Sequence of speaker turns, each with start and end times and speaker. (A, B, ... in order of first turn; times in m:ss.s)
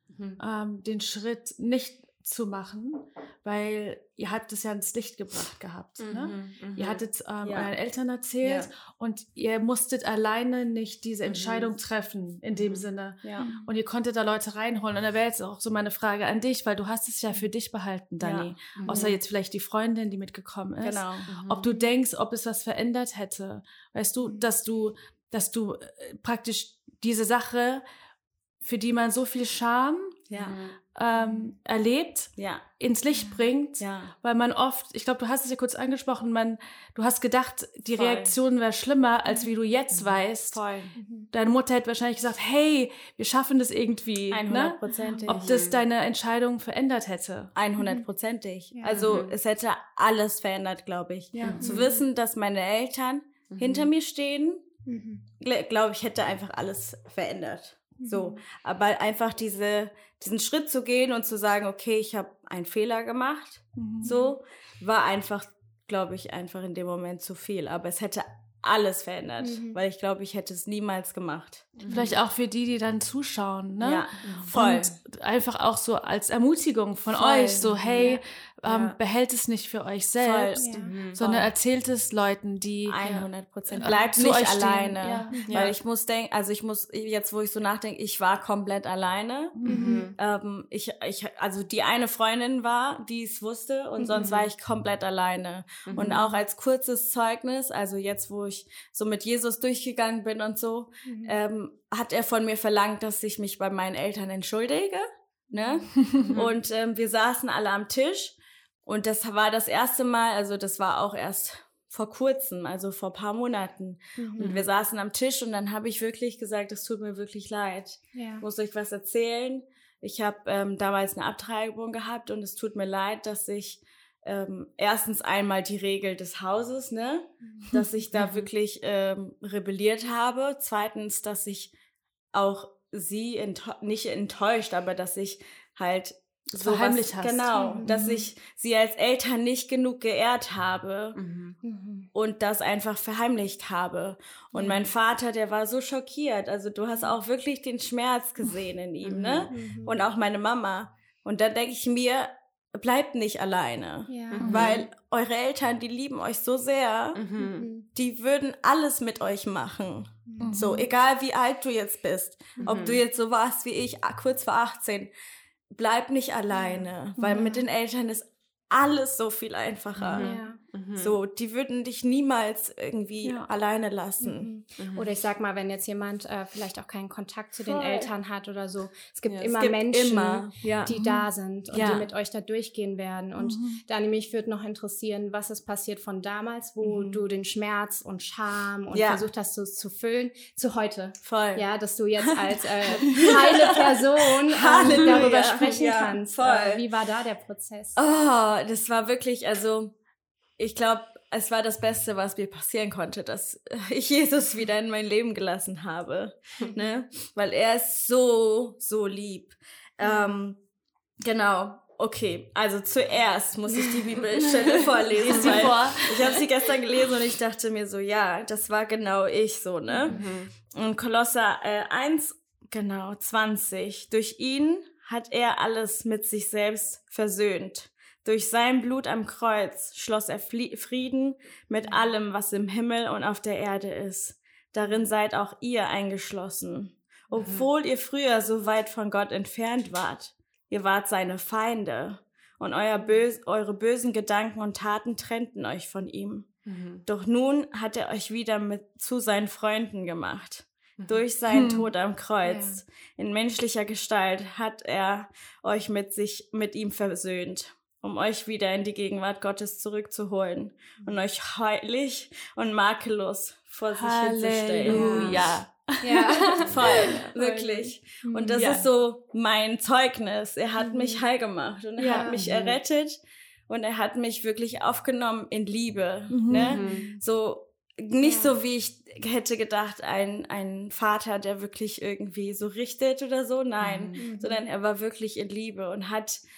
0:00.1-0:00.4 A
0:00.4-0:27.8 B
0:06.0-0:07.0 A
0:07.4-0:07.8 C
0:08.4-0:08.7 A
0:11.2-0:11.7 A
0:12.5-0:12.9 A
0:13.4-0:13.6 D
0:18.2-0:19.2 C
0:18.8-0:19.2 A
0:20.8-0:21.3 C
0:21.3-0:21.7 A
0:24.2-0:24.5 D
0:28.6-0:40.6 B
0:30.3-0:30.6 C
0:30.4-0:30.8 A
0:31.1-0:31.5 D
0:32.4-0:32.6 C
0:33.1-0:33.5 D
0:33.8-0:34.1 C
0:37.9-0:38.4 C
0:39.9-0:40.9 C
0:41.0-0:41.3 D
0:41.3-0:47.5 B
0:44.3-0:45.5 C
0:44.9-0:45.2 D
0:45.3-0:45.8 A
0:47.5-0:54.6 C
0:48.7-0:49.2 D
0:48.9-0:49.4 A
0:51.3-0:51.8 B
0:51.4-0:51.9 A
0:53.5-0:53.9 A
0:54.8-0:55.2 D
0:55.4-1:11.9 C
0:58.0-0:58.4 D
1:03.8-1:04.2 B
1:09.4-1:09.8 D
1:11.8-1:12.2 A
1:11.9-1:25.5 B
1:13.8-1:14.9 C
1:14.2-1:14.5 A
1:17.2-1:18.0 A
1:17.2-1:18.0 C
1:18.0-1:18.2 D
1:18.6-1:19.0 A
1:20.2-1:21.5 C
1:20.6-1:20.9 D
1:20.8-1:21.2 A
1:22.8-1:29.6 C
1:23.8-1:24.1 D
1:25.4-1:25.8 A
1:29.5-1:29.9 B
1:29.6-1:30.2 A
1:29.7-1:30.1 D
1:30.2-2:11.7 C
1:34.0-1:34.4 D
1:35.8-1:36.2 A
1:41.0-1:41.3 D
1:45.6-1:45.8 D
1:46.2-1:46.5 A
1:54.2-1:54.5 D
1:54.4-1:54.6 A
1:58.1-1:58.4 D
2:12.3-2:21.2 C
2:16.5-2:18.2 B
2:17.5-2:18.1 D
2:21.1-2:21.6 A
2:21.6-2:22.1 D
2:22.1-2:37.2 C
2:24.5-2:24.9 D
2:29.0-2:29.5 A
2:29.5-2:30.0 D
2:34.1-2:34.4 D
2:34.3-2:34.9 A
2:34.4-2:34.8 B
2:37.1-2:37.7 A
2:37.4-2:37.8 D
2:37.9-2:45.1 C
2:40.3-2:40.6 D
2:40.4-2:40.9 B
2:42.6-2:43.0 A
2:45.7-2:50.3 C
2:46.5-2:47.6 D
2:47.2-2:47.5 B
2:50.0-2:51.2 A
2:50.2-2:50.6 D
2:51.0-2:54.5 C
2:53.2-2:53.5 B
2:54.2-3:18.0 D
2:54.8-2:55.1 A
2:57.7-2:58.0 B
2:57.7-2:58.0 C
2:59.3-2:59.5 A
2:59.6-3:00.9 C
3:00.9-3:02.0 B
3:01.7-3:02.1 C
3:03.4-3:03.8 B
3:06.9-3:07.2 C
3:08.9-3:09.2 C
3:11.2-3:11.6 C
3:12.9-3:16.8 C
3:14.8-3:15.1 B
3:17.9-3:19.9 C
3:20.6-3:30.6 C
3:26.6-3:26.8 D
3:30.0-3:30.4 D
3:31.2-3:40.2 C
3:35.1-3:36.1 B
3:35.3-3:36.4 A
3:39.9-3:40.2 D
3:40.1-3:40.5 A
3:40.7-4:06.5 C
3:57.4-3:57.7 A
4:06.6-4:07.0 A
4:07.0-4:25.6 C
4:11.0-4:11.2 A
4:11.5-4:11.9 B
4:12.4-4:12.8 D
4:23.9-4:27.3 B
4:24.9-4:25.5 D
4:26.0-4:27.0 D
4:26.4-4:33.2 C
4:26.6-4:27.8 A
4:28.2-4:28.6 D
4:28.6-4:28.8 B
4:30.8-4:31.2 D
4:32.0-4:32.3 B
4:32.1-4:32.3 D
4:32.3-4:32.8 A
4:33.7-4:46.4 C
4:36.3-4:36.8 B
4:36.5-4:37.1 A
4:36.6-4:37.2 D
4:38.2-4:38.5 D
4:43.8-4:44.2 A
4:44.1-4:44.6 D